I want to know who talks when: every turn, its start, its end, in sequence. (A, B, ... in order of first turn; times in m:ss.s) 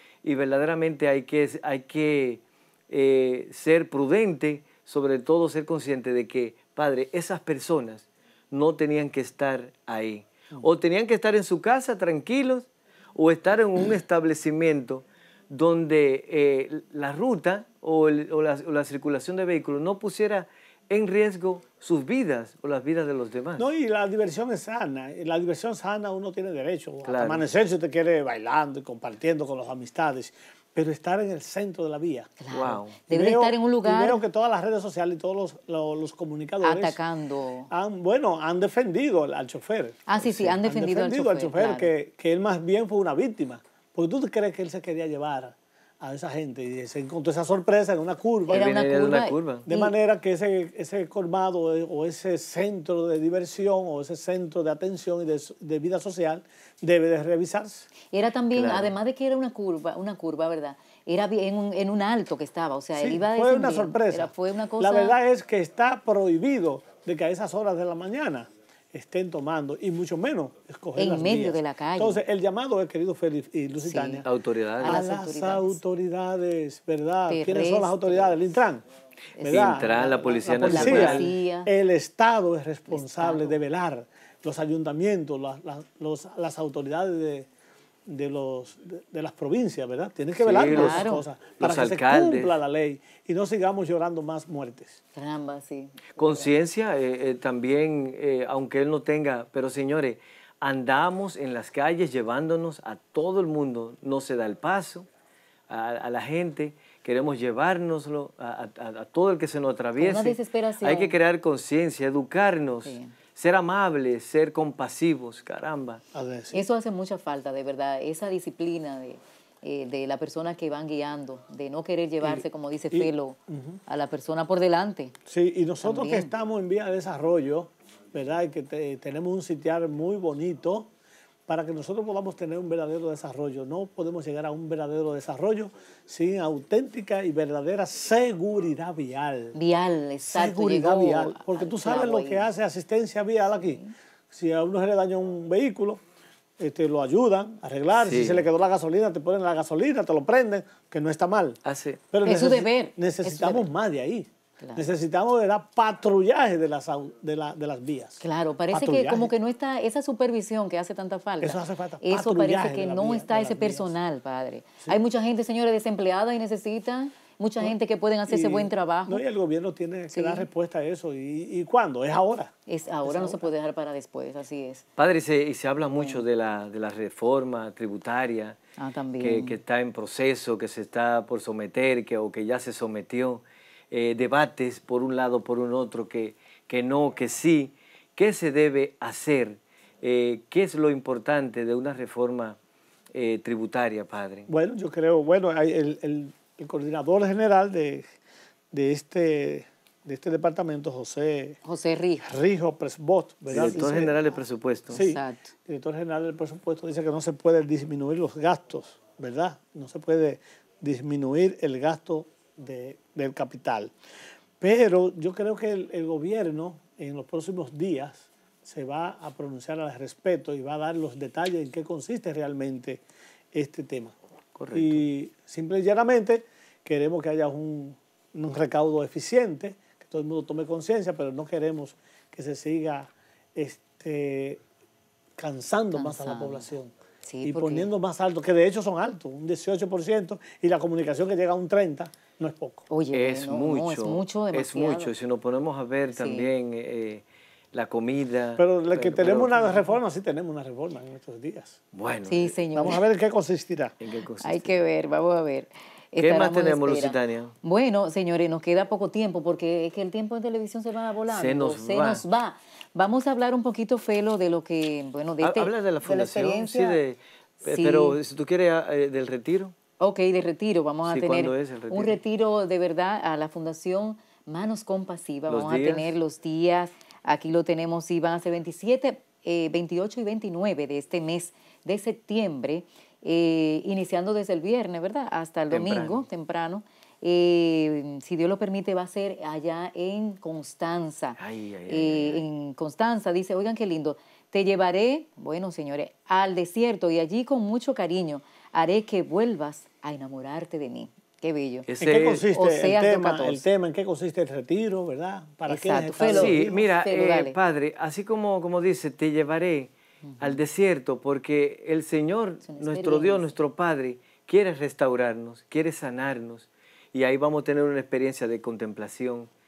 0:00.2-0:23.7 A
0:23.6-0:32.4 B
0:27.0-0:27.5 A
0:32.4-0:34.2 C
0:32.5-0:33.0 A
0:33.1-0:37.0 B
0:36.6-0:37.7 C
0:37.7-0:48.7 B
0:40.1-0:41.9 C
0:48.5-0:49.9 C
0:48.5-0:49.7 A
0:49.7-0:57.9 B
0:58.1-1:05.2 C
0:58.5-0:58.9 A
1:03.0-1:14.3 B
1:11.0-1:12.2 C
1:13.8-1:14.2 C
1:14.2-1:15.0 A
1:14.8-1:18.8 B
1:14.8-1:15.8 C
1:17.3-1:18.4 C
1:19.4-1:21.7 C
1:19.4-1:27.5 B
1:19.4-1:21.3 A
1:22.9-1:23.6 C
1:28.1-1:35.0 B
1:30.4-1:32.6 A
1:30.7-1:31.2 C
1:35.2-1:36.5 C
1:36.2-1:45.1 A
1:45.7-1:56.0 A
1:50.0-1:51.2 C
1:52.8-1:53.2 C
1:56.1-1:56.6 B
1:56.5-2:05.2 C
2:02.2-2:03.8 B
2:05.3-2:10.9 B
2:05.8-2:06.3 C
2:11.5-2:19.6 B
2:19.6-2:22.5 C
2:20.2-2:26.0 B
2:23.6-2:23.9 C
2:26.6-2:31.6 B
2:28.0-2:28.5 A
2:31.6-2:32.0 A
2:32.1-2:39.3 B
2:32.2-2:33.7 C
2:34.6-2:34.9 C
2:38.2-2:49.2 C
2:41.4-2:43.9 B
2:48.3-2:52.5 B
2:50.1-2:50.4 C
2:52.7-2:54.8 C
2:53.0-2:53.5 B
2:55.0-2:58.6 A
2:55.9-2:56.2 C
2:58.8-2:59.6 C
2:59.2-3:12.6 A
3:13.1-3:14.5 A
3:14.5-3:18.1 B
3:18.7-3:21.6 B
3:21.6-3:22.3 C
3:22.2-3:24.2 B
3:23.5-3:25.0 A
3:24.9-3:33.9 B
3:24.9-3:25.5 C
3:34.6-3:43.0 B
3:43.5-3:44.2 B
3:44.6-3:45.0 A
3:44.7-3:54.6 B
3:55.4-4:02.8 B
3:55.9-3:56.7 C
3:57.3-3:57.9 C
4:02.9-4:05.1 C
4:03.1-4:09.9 A
4:06.1-4:06.5 C
4:08.6-4:11.8 B
4:11.9-4:12.6 A
4:12.3-4:13.0 C
4:12.7-4:14.0 B
4:14.0-4:14.8 A
4:14.4-4:27.0 C
4:16.2-4:17.6 A
4:21.3-4:22.2 A
4:25.4-4:29.8 A
4:27.6-4:28.2 C
4:30.0-5:01.9 C
4:31.0-4:32.2 A
4:35.5-4:36.2 A
4:45.7-4:46.2 A
4:51.4-4:52.4 A
5:01.9-5:02.5 A
5:02.0-5:06.9 B
5:02.5-5:03.6 C
5:05.7-5:07.6 C
5:06.2-5:19.5 A
5:10.3-5:10.6 C
5:12.6-5:13.5 C